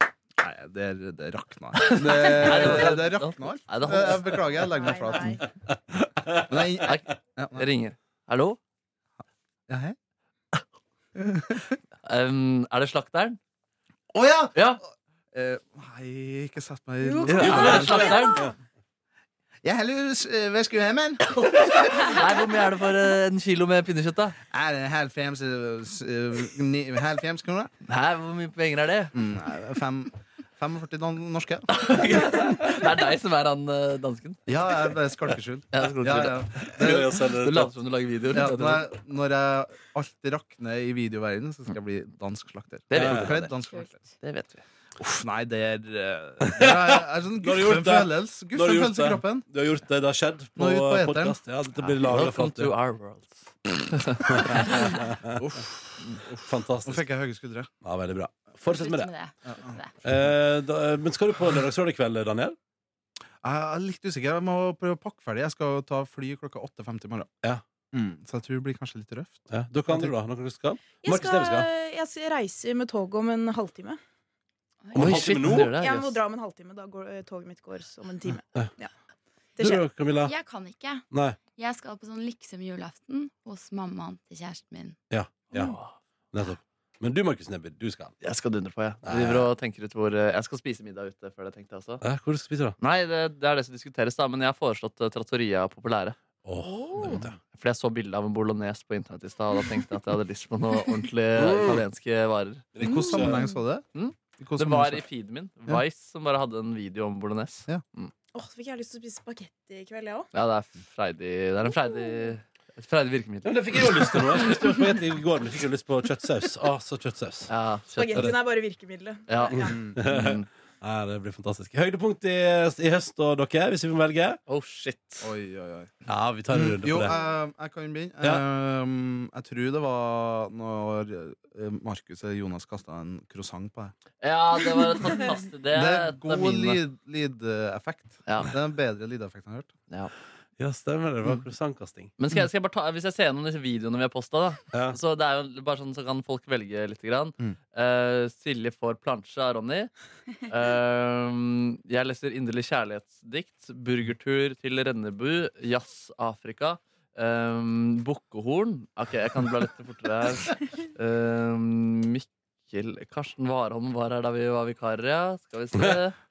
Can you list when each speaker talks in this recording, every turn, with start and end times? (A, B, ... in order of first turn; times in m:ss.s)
0:00.4-0:05.4 A
0:01.8-0:04.7 B
0:04.7-0:05.4 C
0:06.5-0:07.6 A
0:06.8-0:08.6 B
0:09.7-0:10.0 A
0:11.2-0:11.8 A
0:12.0-0:13.4 B
0:14.1-0:18.2 A
0:14.6-0:14.8 B
0:17.0-0:18.2 C
0:17.3-0:18.5 B
0:17.4-0:18.5 D
0:19.6-0:21.5 A
0:21.4-0:24.4 B
0:24.5-0:27.7 A
0:27.9-0:29.1 B
0:29.1-0:32.0 A
0:31.7-0:34.4 B
0:34.5-0:37.2 A
0:35.7-0:38.9 B
0:36.7-0:37.7 D
0:38.3-0:44.0 A
0:42.9-0:43.6 B
0:42.9-0:43.3 D
0:44.2-0:44.6 B
0:45.0-0:49.5 A
0:46.4-0:52.7 D
0:50.6-0:51.4 A
0:51.8-0:55.0 B
0:54.3-0:55.4 D
0:55.4-0:57.7 A
0:56.4-0:57.1 D
0:57.8-0:59.1 D
0:58.7-0:59.9 E
0:59.5-0:59.8 A
1:00.0-1:02.6 D
1:03.4-1:07.3 A
1:07.9-1:10.1 A
1:09.5-1:11.7 D
1:11.0-1:14.0 C
1:14.9-1:15.2 E
1:14.9-1:15.7 D
1:14.9-1:16.2 B
1:15.7-1:18.9 C
1:19.6-1:19.9 C
1:19.6-1:20.3 D
1:20.2-1:21.0 E
1:21.1-1:21.4 D
1:21.6-1:25.0 E
1:25.1-1:25.8 D
1:25.5-1:26.0 B
1:26.3-1:28.2 D
1:28.2-1:32.0 B
1:29.0-1:29.5 D
1:32.0-1:32.8 D
1:32.8-1:36.2 B
1:36.4-1:37.4 D
1:36.7-1:37.2 C
1:37.4-1:42.7 B
1:41.4-1:41.8 D
1:42.8-1:43.4 D
1:42.8-1:43.8 A
1:42.9-1:43.4 C
1:43.9-1:48.1 B
1:44.4-1:45.0 A
1:48.3-1:50.3 C
1:50.3-1:54.2 B
1:53.4-1:57.5 D
1:57.5-1:58.3 B
1:57.9-1:59.8 C
1:59.3-2:00.5 B
1:59.5-2:04.4 D
1:59.7-2:00.0 A
2:04.5-2:05.3 B
2:05.2-2:05.9 A
2:06.1-2:07.1 D
2:06.5-2:13.9 A
2:14.2-2:16.8 B
2:15.7-2:19.7 A
2:18.3-2:18.5 B
2:20.6-2:22.1 D
2:22.2-2:29.9 B
2:24.7-2:25.0 D
2:30.5-2:46.2 B